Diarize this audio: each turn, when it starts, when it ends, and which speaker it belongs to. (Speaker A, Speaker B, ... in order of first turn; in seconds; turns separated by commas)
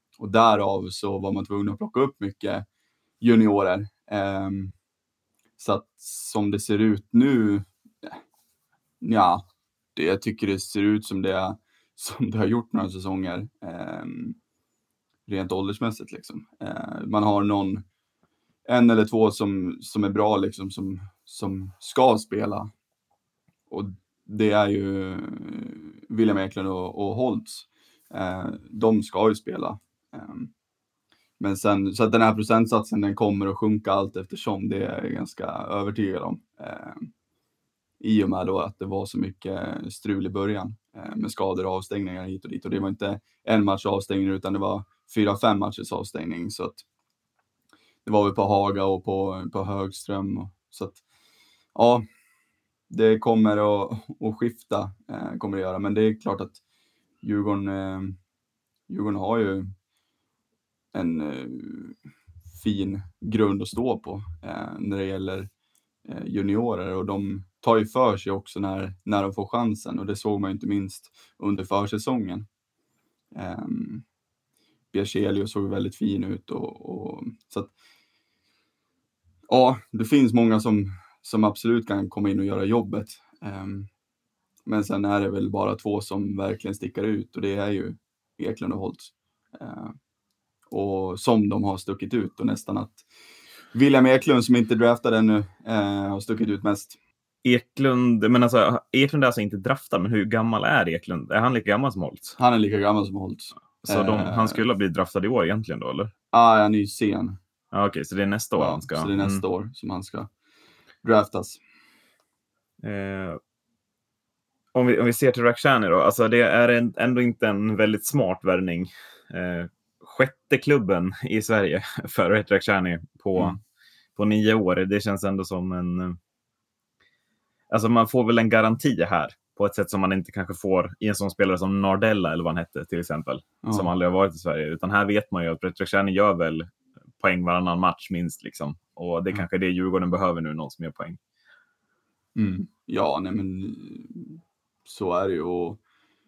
Speaker A: 0.2-2.6, Speaker A: 3.2-4.7, Speaker A: 5.6-8.2, Speaker A: 9.0-14.4, Speaker A: 15.3-17.8, Speaker A: 18.7-22.7, Speaker A: 23.7-30.5, Speaker A: 31.4-37.1, Speaker A: 38.0-46.8, Speaker A: 48.0-51.0, Speaker A: 51.7-52.0, Speaker A: 52.9-56.6, Speaker A: 57.2-58.2, Speaker A: 58.9-59.7, Speaker A: 60.9-62.0, Speaker A: 62.5-65.5, Speaker A: 66.0-72.5, Speaker A: 73.3-74.0, Speaker A: 74.9-77.7, Speaker A: 79.5-83.9, Speaker A: 84.7-90.0, Speaker A: 90.7-93.0, Speaker A: 93.7-97.0, Speaker B: 97.4-102.4, Speaker A: 102.4-104.6, Speaker B: 103.8-106.1, Speaker A: 106.3-107.4, Speaker B: 107.7-109.4, Speaker A: 108.6-110.3, Speaker A: 111.0-111.6, Speaker B: 112.8-113.4, Speaker B: 114.7-123.6, Speaker B: 124.2-126.2, Speaker B: 127.7-136.7, Speaker A: 133.6-133.9, Speaker B: 137.2-141.2, Speaker A: 142.3-145.8